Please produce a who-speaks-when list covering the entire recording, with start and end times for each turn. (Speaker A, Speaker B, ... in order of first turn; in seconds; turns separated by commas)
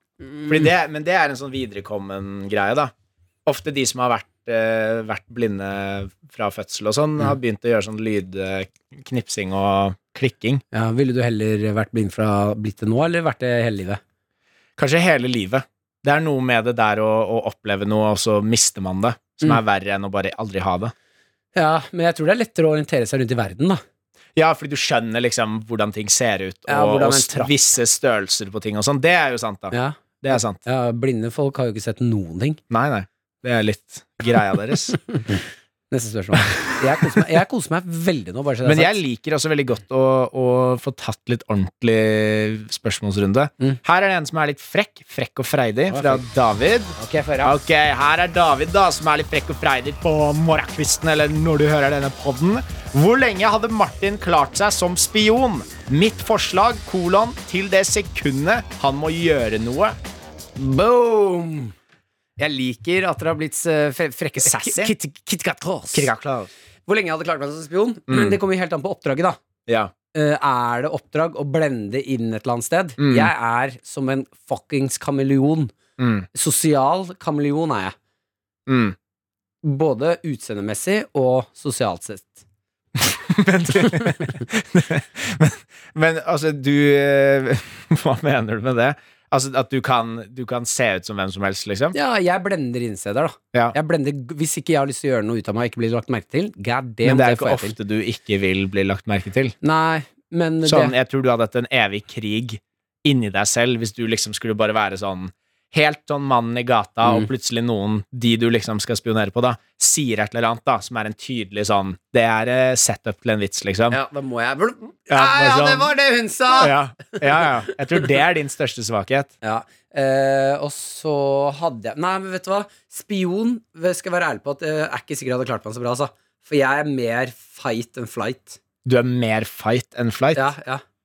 Speaker A: 0.5-2.9, Speaker A: 3.5-10.6, Speaker B: 10.7-14.0, Speaker A: 14.8-20.9, Speaker B: 21.6-23.8, Speaker A: 24.4-30.6, Speaker B: 26.7-27.5, Speaker B: 29.7-32.6, Speaker A: 32.7-35.0, Speaker B: 35.9-39.0, Speaker A: 38.6-60.0, Speaker B: 45.9-46.2, Speaker B: 47.0-47.6, Speaker B: 60.6-61.8, Speaker B: 62.4-66.1, Speaker A: 64.4-64.9, Speaker A: 65.9-66.5, Speaker B: 66.9-69.4, Speaker A: 68.1-68.4, Speaker A: 69.7-69.9, Speaker B: 70.1-75.7, Speaker A: 73.0-73.3, Speaker A: 76.0-76.3, Speaker B: 76.3-78.0, Speaker A: 78.7-79.0, Speaker B: 79.6-82.4, Speaker A: 83.0-92.0, Speaker B: 83.8-84.3, Speaker B: 91.9-97.8, Speaker A: 97.0-99.5, Speaker B: 99.6-100.9, Speaker A: 100.7-114.0, Speaker B: 113.9-117.5, Speaker A: 115.1-115.9, Speaker A: 116.6-119.3, Speaker B: 119.4-128.6, Speaker A: 128.8-130.5, Speaker B: 130.3-130.8